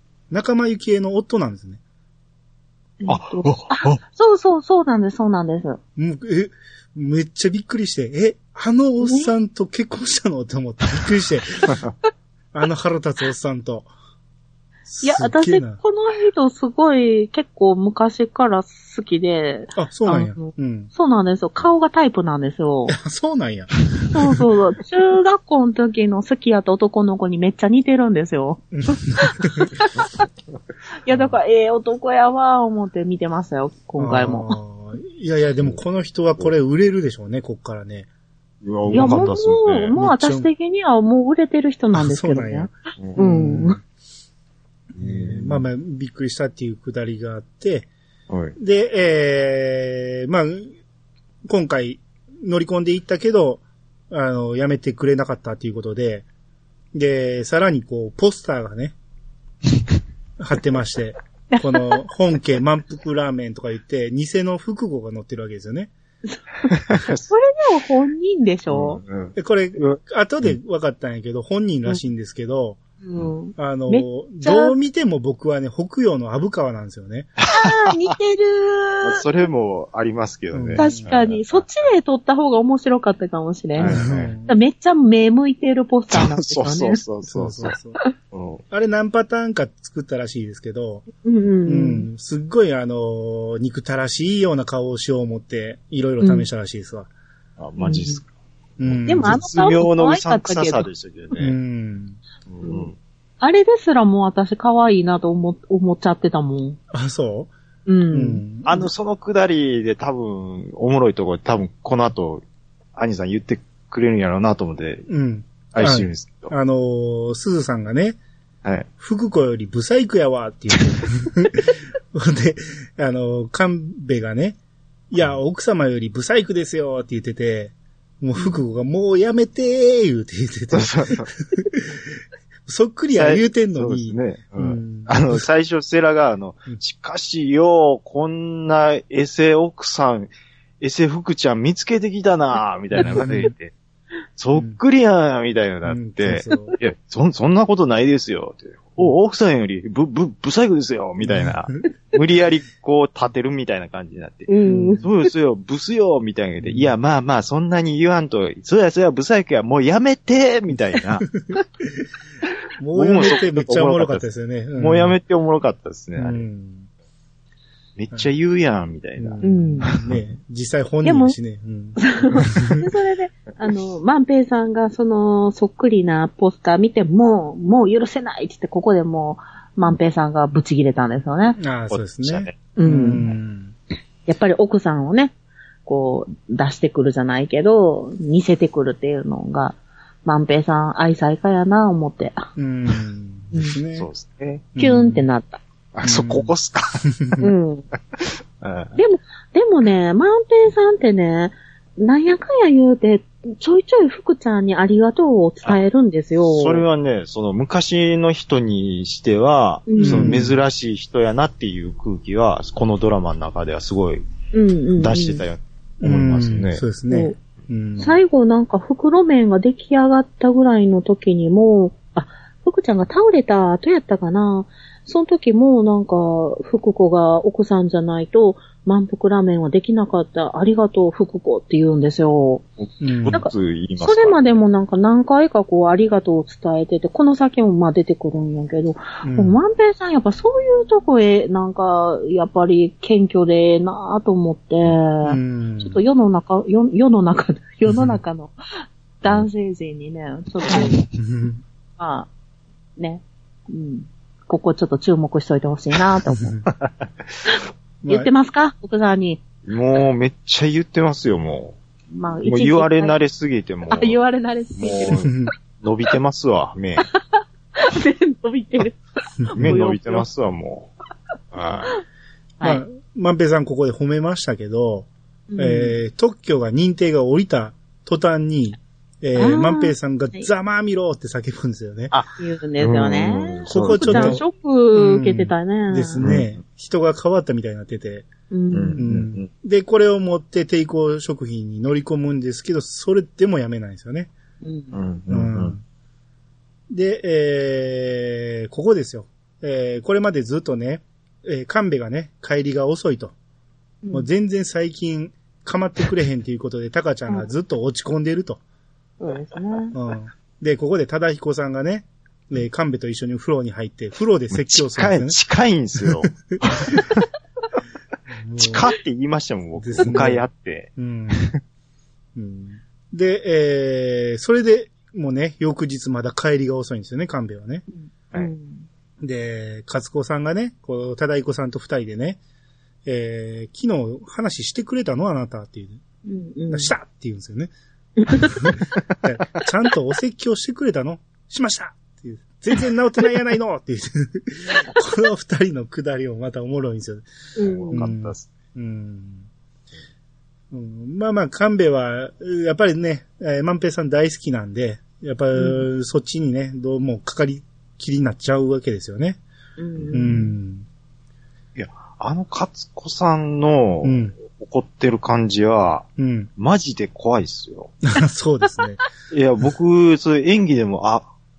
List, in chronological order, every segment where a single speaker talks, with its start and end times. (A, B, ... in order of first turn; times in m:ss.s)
0:00.3-0:01.8 A
0:03.0-0:05.8 B
0:03.1-0:04.0 C
0:06.0-0:11.8 A
0:09.0-0:09.3 B
0:12.5-0:13.9 A
0:14.9-0:15.8 A
0:15.0-0:23.0 B
0:19.7-0:20.9 A
0:22.9-0:23.7 A
0:24.1-0:30.1 B
0:28.7-0:29.7 A
0:31.0-0:34.6 B
0:34.0-0:38.1 A
0:38.6-0:39.9 C
0:38.8-0:39.3 A
0:38.9-0:43.8 B
0:39.9-0:40.5 A
0:41.9-0:43.8 A
0:44.9-0:45.6 C
0:45.0-0:47.9 A
0:48.3-0:48.6 C
0:48.6-0:50.7 A
0:51.5-0:56.2 A
0:56.9-0:58.9 A
1:00.4-1:05.9 A
1:01.5-1:02.0 B
1:06.2-1:09.0 B
1:06.8-1:07.3 C
1:08.7-1:10.6 C
1:09.4-1:12.8 A
1:13.0-1:14.7 B
1:13.6-1:17.3 A
1:17.4-1:18.2 C
1:17.5-1:19.2 B
1:19.0-1:21.7 C
1:20.5-1:21.1 A
1:20.8-1:23.9 B
1:23.8-1:24.3 C
1:23.8-1:24.6 A
1:24.5-1:27.0 B
1:26.1-1:27.8 C
1:27.2-1:28.0 A
1:28.3-1:28.6 C
1:28.7-1:31.0 A
1:31.2-1:32.1 B
1:31.7-1:37.1 A
1:36.2-1:36.5 B
1:37.6-1:38.3 C
1:37.8-1:38.2 B
1:38.8-1:39.4 A
1:38.8-1:41.6 C
1:39.0-1:40.9 B
1:41.4-1:42.2 A
1:42.5-1:43.0 C
1:43.4-1:46.8 B
1:46.9-1:47.5 A
1:47.9-1:48.4 B
1:48.1-1:48.7 A
1:48.6-1:52.4 C
1:53.0-1:55.1 C
1:55.1-1:58.2 A
1:55.7-1:56.5 C
1:59.0-2:04.6 A
2:05.1-2:12.0 A
2:10.7-2:11.3 C
2:12.7-2:15.4 A
2:13.1-2:20.3 C
2:20.8-2:23.7 C
2:23.0-2:23.5 A
2:24.4-2:41.3 C
2:24.5-2:24.8 A
2:25.8-2:26.8 A
2:31.2-2:31.9 A
2:34.5-2:35.1 B
2:34.6-2:35.0 A
2:36.6-2:36.9 A
2:41.3-2:42.0 A
2:42.8-2:45.2 A
2:42.9-2:46.4 C
2:46.2-2:46.9 A
2:48.0-2:50.2 C
2:49.2-2:52.8 A
2:49.4-2:49.9 B
2:51.0-2:51.4 B
2:52.0-3:01.6 B
3:01.6-3:03.7 A
3:01.9-3:02.6 C
3:02.8-3:03.3 B
3:04.3-3:05.3 B
3:05.9-3:12.5 B
3:12.6-3:14.1 A
3:14.0-3:14.7 C
3:14.8-3:15.3 A
3:14.8-3:15.6 B
3:15.9-3:17.0 C
3:16.0-3:16.5 A
3:17.1-3:17.5 A
3:17.4-3:17.9 B
3:18.1-3:19.0 C
3:19.0-3:26.8 B
3:26.4-3:34.2 C
3:29.9-3:30.4 B
3:30.0-3:30.6 A
3:34.5-3:35.4 B
3:35.0-3:36.8 C
3:36.0-3:38.2 A
3:37.1-3:37.3 B
3:38.0-3:52.6 B
3:52.9-3:54.6 C
3:53.0-3:53.4 A
3:53.3-4:08.6 B
3:59.2-3:59.6 A
4:05.2-4:06.0 A
4:07.9-4:08.2 A
4:09.2-4:11.0 B
4:11.1-4:11.6 A
4:12.0-4:12.3 B
4:13.0-4:16.6 B
4:16.4-4:16.7 A
4:16.8-4:17.1 C
4:17.5-4:19.4 B
4:18.0-4:18.3 A
4:19.6-4:21.8 C
4:22.1-4:23.1 B
4:22.4-4:24.2 C
4:23.9-4:25.3 B
4:24.8-4:27.1 C
4:25.2-4:25.5 A
4:27.0-4:30.3 B
4:29.5-4:29.7 A
4:29.6-4:30.9 C
4:31.5-4:32.0 C
4:32.6-4:42.1 A
4:35.5-4:36.0 B
4:39.4-4:40.5 B
4:42.1-4:44.4 C
4:42.4-4:46.3 B
4:43.7-4:44.4 A
4:45.0-4:48.3 A
4:46.2-4:46.6 C
4:48.5-4:49.0 B
4:48.7-4:49.5 C
4:49.0-4:54.3 A
4:54.6-4:54.9 B
4:54.9-4:55.7 C
4:55.3-4:55.8 A
4:56.9-5:03.3 A
5:04.1-5:08.6 A
5:09.2-5:10.0 B
5:09.9-5:15.4 A
5:14.5-5:17.2 C
5:16.7-5:17.0 A
5:18.3-5:18.9 A
5:18.6-5:21.6 C
5:19.8-5:20.4 A
5:21.0-5:21.5 A
5:22.4-5:27.9 A
5:27.9-5:28.9 B
5:29.2-5:32.4 A
5:33.0-5:36.0 A
5:36.3-5:36.9 B
5:36.7-5:37.7 A
5:38.2-5:38.7 B
5:38.3-5:47.3 A
5:47.6-5:48.1 B
5:47.6-5:48.5 C
5:47.9-5:49.5 A
5:50.7-5:59.4 A
5:55.6-5:55.9 B
5:59.8-6:00.6 B
6:00.0-6:00.3 C
6:00.1-6:00.9 A
6:01.7-6:08.0 C
6:04.0-6:04.4 A
6:06.2-6:06.5 A
6:08.0-6:09.0 A
6:09.3-6:11.3 C